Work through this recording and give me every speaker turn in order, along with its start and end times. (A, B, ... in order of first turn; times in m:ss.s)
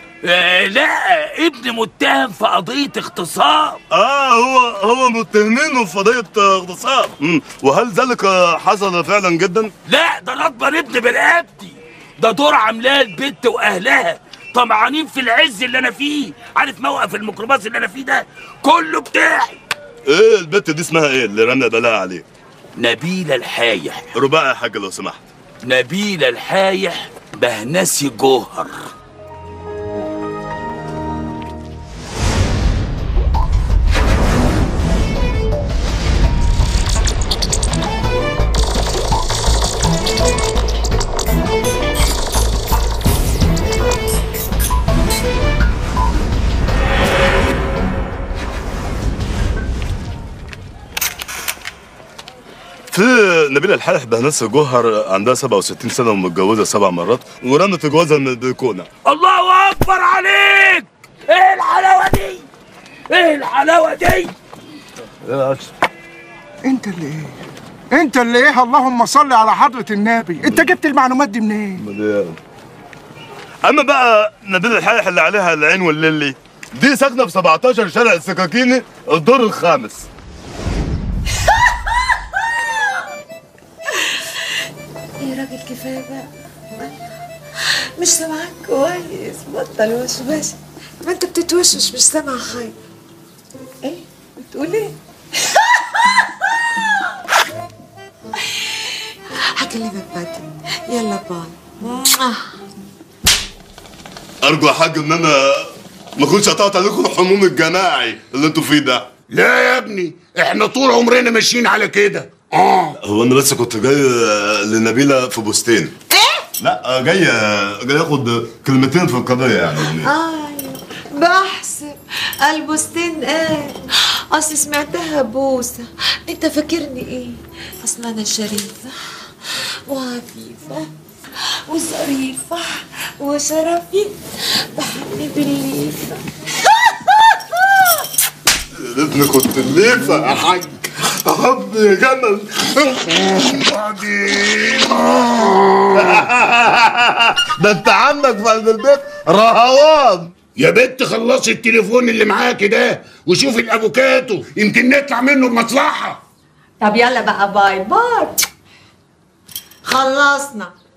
0:00.2-0:03.8 A
0:03.9-0:09.7 B
0:09.9-0:19.6 A
0:20.1-0:22.3 B
0:22.8-0:24.1 A
0:24.1-0:25.3 B
0:25.6-0:28.9 A
0:52.9-0:58.9 B
0:59.1-1:02.5 A
1:03.1-1:04.3 A
1:05.2-1:05.7 B
1:06.6-1:07.4 C
1:07.9-1:11.8 C
1:11.8-1:12.4 B
1:13.6-1:20.1 B
1:25.2-1:26.9 D
1:28.0-1:32.8 D
1:33.8-1:36.3 D
1:38.6-1:42.5 D
1:44.4-1:49.1 B
1:49.3-1:52.9 E
1:53.0-1:55.9 B
1:56.1-1:56.5 D
1:56.6-2:00.1 B
2:00.0-2:01.9 D
2:02.4-2:10.9 D
2:11.7-2:18.0 D
2:18.8-2:24.4 B
2:24.5-2:24.9 E
2:25.9-2:30.3 B
2:30.6-2:36.2 E
2:36.8-2:38.4 D
2:39.8-2:40.7 D